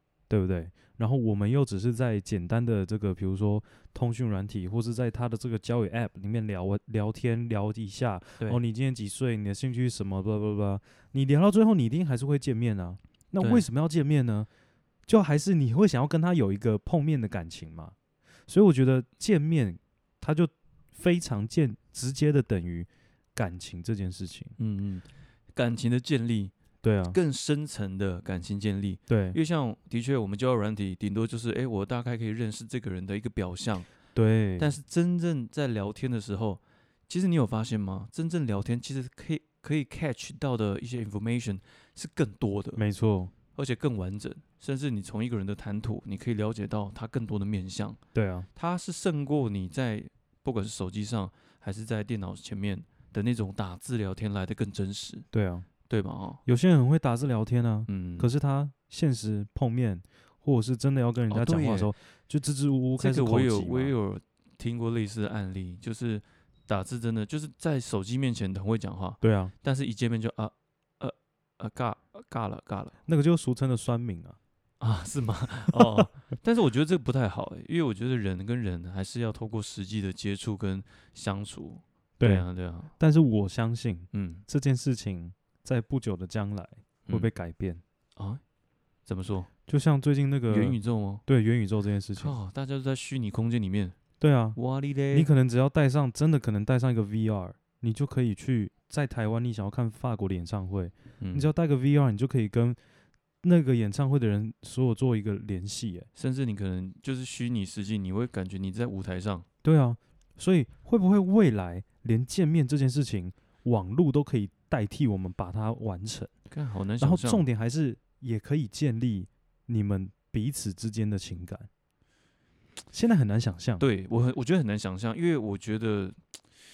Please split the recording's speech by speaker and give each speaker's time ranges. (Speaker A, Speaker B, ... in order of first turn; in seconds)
Speaker A: 0.3-14.5, 15.1-17.9, 18.5-24.5, 26.8-27.2, 29.1-29.4, 34.1-34.7, 42.8-43.3, 48.1-48.5, 55.3-55.7, 56.5-63.9, 69.2-69.5, 73.0-74.4, 82.2-87.8, 89.7-92.3, 94.2-94.6, 95.1-102.8, 103.4-106.1, 109.6-116.3, 117.0-121.7, 122.9-123.8
Speaker B: 13.4-13.7, 24.6-26.5, 27.1-33.9, 34.6-42.8, 43.5-48.0, 48.5-55.3, 55.9-56.4, 57.9-58.3, 61.3-61.9, 63.0-72.9, 74.8-82.9, 84.1-84.4, 89.0-89.5, 90.5-91.2, 92.2-94.0, 94.5-95.3, 101.2-101.5, 106.2-109.5, 116.5-117.4, 123.8-126.2